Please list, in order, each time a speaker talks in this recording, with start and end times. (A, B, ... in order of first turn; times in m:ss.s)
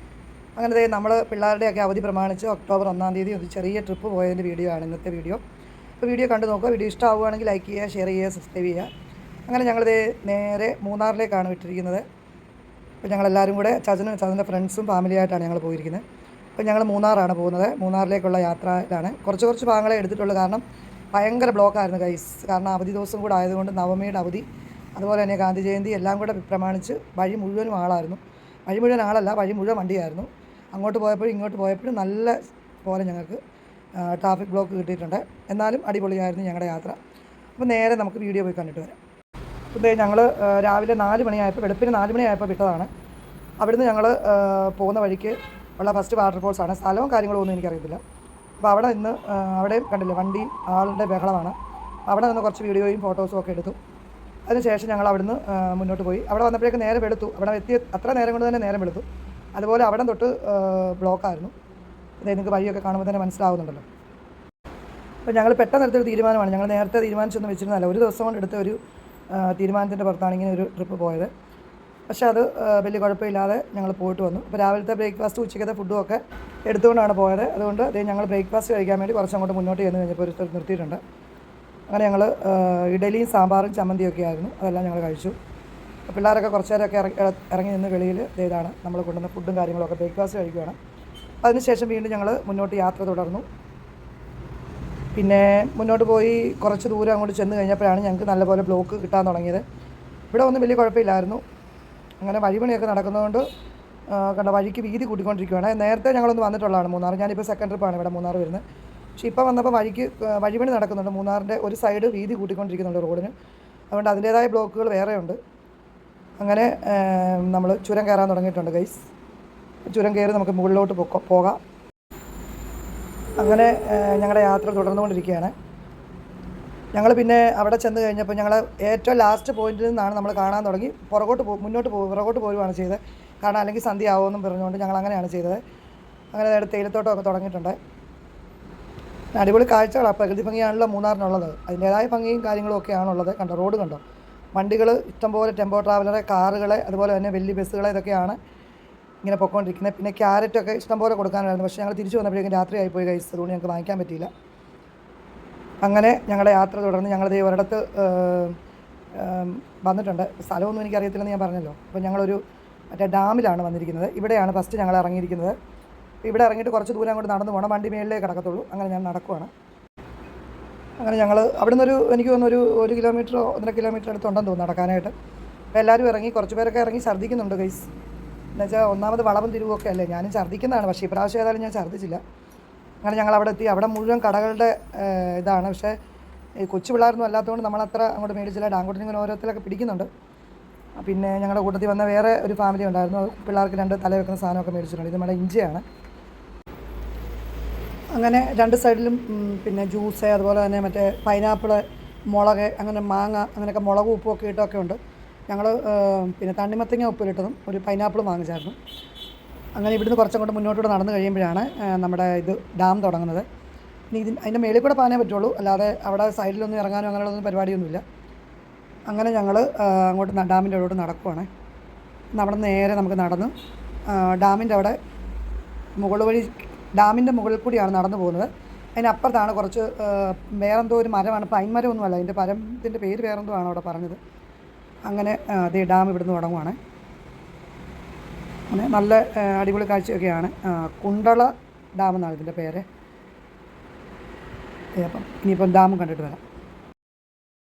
0:00.6-0:05.4 A
0:06.0-0:08.9 A
0:09.5-0:12.0 A
0:13.0-0:16.0 A
0:16.6-0:24.4 A
0:25.0-0:33.4 A
0:34.0-0:37.0 A
0:37.6-0:38.9 A
0:39.7-0:42.9 A
0:43.6-0:48.0 A
0:48.6-0:51.6 A
0:52.1-0:53.8 A
0:54.5-1:01.5 A
1:02.2-1:03.8 A
1:05.2-1:08.8 A
1:09.3-1:11.3 A
1:12.1-1:21.0 A
1:21.9-1:25.3 A
1:26.0-1:30.8 A
1:31.4-1:33.4 A
1:35.1-1:39.6 A
1:40.3-1:41.4 A
1:42.2-1:43.4 A
1:44.1-1:48.6 A
1:49.2-1:53.3 A
1:53.9-1:55.4 A
1:56.4-1:59.1 A
1:59.9-2:01.6 A
2:03.4-2:05.5 A
2:06.9-2:15.6 A
2:16.3-2:17.8 A
2:19.4-2:24.0 A
2:24.6-2:28.4 A
2:29.2-2:34.3 A
2:35.8-2:38.6 A
2:39.1-2:42.4 A
2:42.9-2:45.6 A
2:46.2-2:49.5 A
2:51.0-2:55.1 A
2:55.7-2:57.9 A
2:58.6-3:02.2 A
3:03.0-3:06.0 A
3:06.6-3:10.1 A
3:11.0-3:15.8 A
3:18.1-3:28.8 A
3:29.8-3:33.5 A
3:34.1-3:38.0 A
3:39.1-3:41.5 A
3:42.3-3:43.5 A
3:44.1-3:45.0 A
3:46.0-3:54.2 A
3:55.0-3:56.8 A
3:58.7-4:02.8 A
4:05.0-4:06.4 A